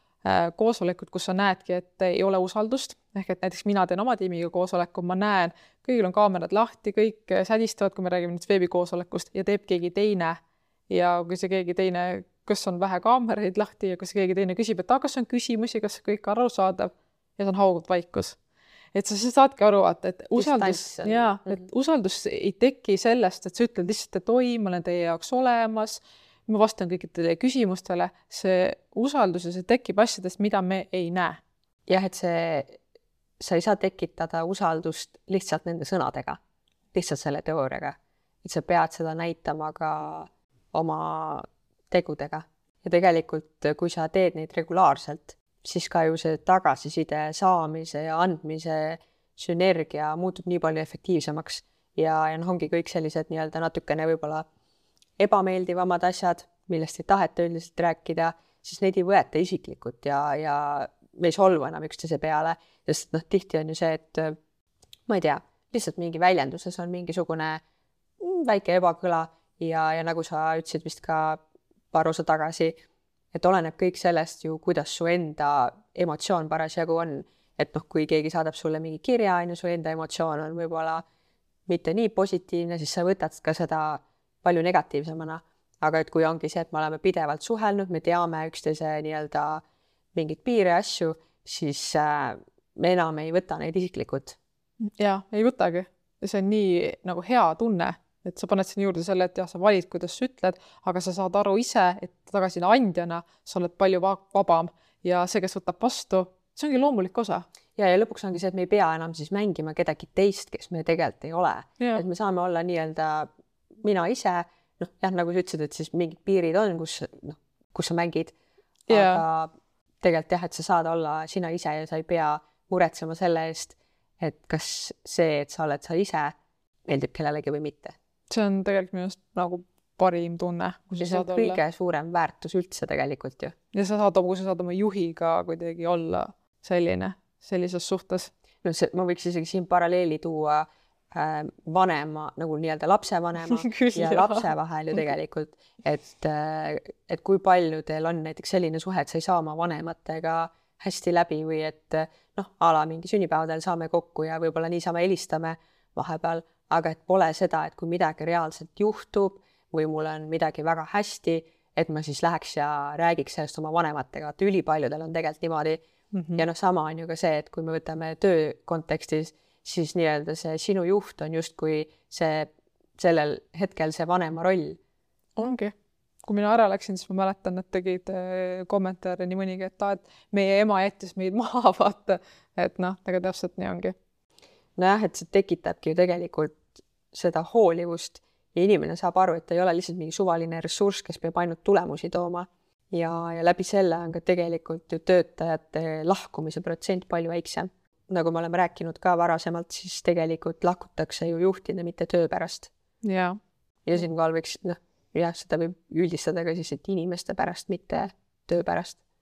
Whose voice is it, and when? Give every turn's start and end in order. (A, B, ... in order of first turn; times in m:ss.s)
0:00.2-0:10.4 A
0:10.9-0:18.4 A
0:18.9-0:31.4 A
0:20.4-0:21.7 B
0:31.9-0:32.8 B
0:33.4-0:36.4 B
0:36.9-0:54.4 B
0:55.2-1:04.4 B
1:05.1-1:07.6 B
1:08.2-1:11.4 B
1:11.9-1:12.8 B
1:13.3-1:21.0 B
1:21.7-1:29.6 B
1:30.1-1:34.4 B
1:35.0-1:47.5 A
1:47.8-1:53.3 B
1:53.8-1:58.3 B
1:58.9-1:59.2 A
1:58.9-1:59.5 B
2:00.0-2:06.4 B
2:06.9-2:08.0 B
2:08.3-2:11.6 A
2:11.0-2:13.6 B
2:13.7-2:18.3 A
2:18.6-2:45.8 B
2:23.5-2:24.5 A
2:46.1-2:46.4 A
2:46.4-2:54.8 B
2:55.4-3:03.9 A
3:04.8-3:22.7 B
3:23.0-3:23.4 A
3:23.9-3:29.0 B